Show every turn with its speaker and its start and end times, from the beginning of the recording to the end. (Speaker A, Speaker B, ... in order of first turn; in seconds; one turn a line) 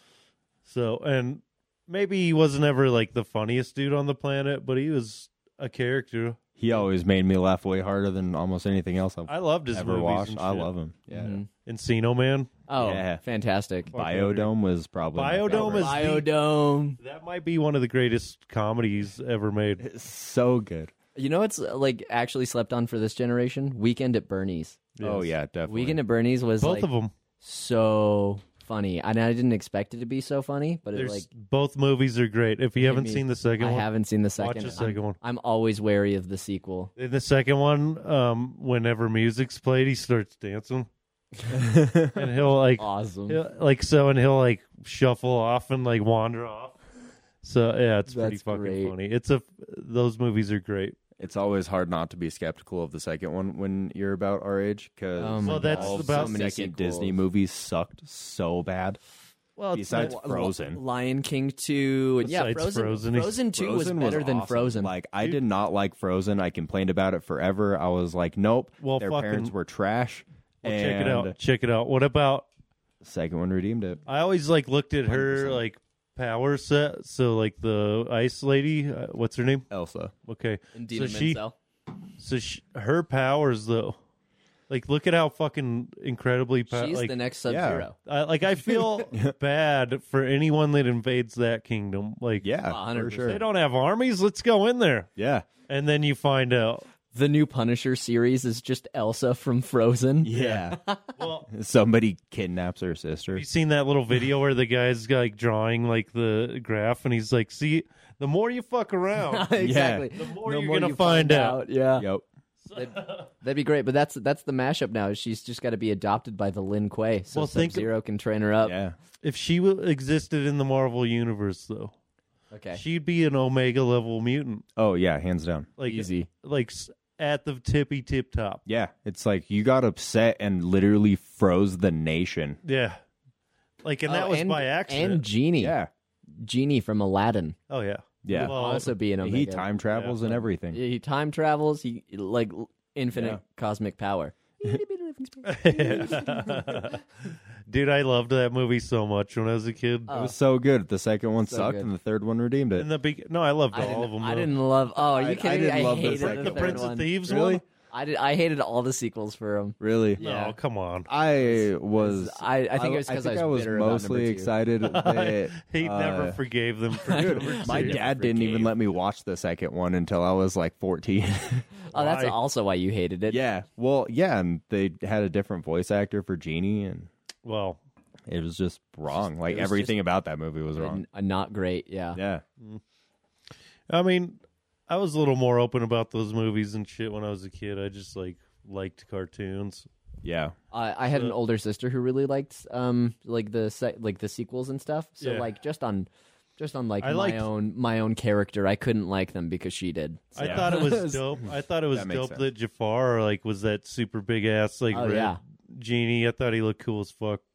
Speaker A: 0.7-6.8
Speaker B: 6.6-11.4
Speaker A: 9.3-10.7
Speaker C: 11.1-11.5
Speaker A: 11.7-12.6
Speaker C: 12.7-13.9
Speaker B: 12.8-13.2
Speaker A: 13.9-14.5
Speaker B: 13.9-16.0
Speaker A: 15.1-16.3
Speaker C: 15.5-17.0
Speaker A: 17.0-19.8
Speaker B: 19.8-20.9
Speaker C: 21.2-24.9
Speaker A: 25.0-25.3
Speaker B: 25.0-26.0
Speaker C: 25.7-26.9
Speaker A: 26.6-27.1
Speaker C: 27.4-31.3
Speaker A: 30.9-33.9
Speaker C: 32.8-36.9
Speaker A: 34.4-35.2
Speaker A: 37.0-40.9
Speaker B: 41.5-42.2
Speaker A: 42.1-46.8
Speaker C: 42.8-43.4
Speaker A: 47.4-51.0
Speaker C: 48.1-49.0
Speaker B: 51.2-59.0
Speaker C: 55.2-57.2
Speaker A: 55.5-56.4
Speaker A: 59.6-60.1
Speaker B: 59.7-60.8
Speaker C: 59.8-64.9
Speaker A: 62.2-63.4
Speaker B: 63.5-71.4
Speaker A: 68.8-69.5
Speaker A: 70.6-72.5
Speaker B: 73.0-74.0
Speaker A: 74.1-79.7
Speaker B: 75.1-75.6
Speaker B: 79.7-80.1
Speaker A: 80.3-81.4
Speaker C: 80.7-81.5
Speaker A: 82.2-84.0
Speaker A: 84.7-87.2
Speaker C: 86.7-88.0
Speaker B: 87.5-87.9
Speaker A: 88.0-92.5
Speaker B: 89.0-89.3
Speaker B: 92.4-93.4
Speaker C: 92.7-93.4
Speaker A: 93.3-95.1
Speaker B: 95.2-95.5
Speaker A: 95.7-96.9
Speaker C: 97.1-101.1
Speaker B: 100.2-100.8
Speaker A: 101.2-101.5
Speaker B: 101.5-103.5
Speaker A: 103.3-109.5
Speaker C: 109.3-112.1
Speaker B: 109.6-110.1
Speaker A: 110.2-111.6
Speaker B: 112.0-112.2
Speaker A: 112.7-113.3
Speaker C: 112.7-118.8
Speaker A: 117.3-117.9
Speaker B: 118.6-119.0
Speaker A: 119.2-121.9
Speaker C: 122.5-122.8
Speaker A: 122.8-124.7
Speaker B: 124.8-125.7
Speaker A: 125.8-128.6
Speaker C: 125.9-126.3
Speaker B: 128.7-132.6
Speaker A: 132.6-133.0
Speaker A: 133.8-135.3
Speaker C: 134.1-135.8
Speaker B: 135.6-135.9
Speaker C: 136.3-137.6
Speaker A: 137.7-138.9
Speaker B: 138.2-138.6
Speaker C: 138.3-139.7
Speaker B: 139.2-140.8
Speaker A: 139.9-140.3
Speaker C: 140.7-147.0
Speaker B: 143.1-143.4
Speaker A: 145.4-147.0
Speaker A: 147.7-150.1
Speaker C: 150.1-150.4
Speaker B: 150.1-152.9
Speaker C: 151.4-151.9
Speaker A: 152.8-154.5
Speaker C: 153.7-157.2
Speaker B: 155.1-157.6
Speaker A: 156.0-157.6
Speaker C: 157.9-160.6
Speaker B: 159.8-160.2
Speaker A: 160.2-161.1
Speaker B: 161.1-166.4
Speaker C: 161.4-164.5
Speaker A: 164.8-168.1
Speaker C: 167.0-168.7
Speaker B: 167.1-171.7
Speaker C: 171.9-173.4
Speaker A: 171.9-172.4
Speaker B: 173.3-177.1
Speaker A: 177.4-177.8
Speaker B: 178.3-181.0
Speaker C: 179.4-180.0
Speaker C: 180.8-182.2
Speaker B: 182.2-182.4
Speaker A: 183.9-189.9
Speaker B: 190.2-190.6
Speaker C: 190.7-201.3
Speaker A: 195.2-195.5
Speaker A: 197.0-197.5
Speaker A: 200.3-207.4
Speaker B: 200.4-200.8
Speaker B: 201.9-202.5
Speaker C: 204.9-205.4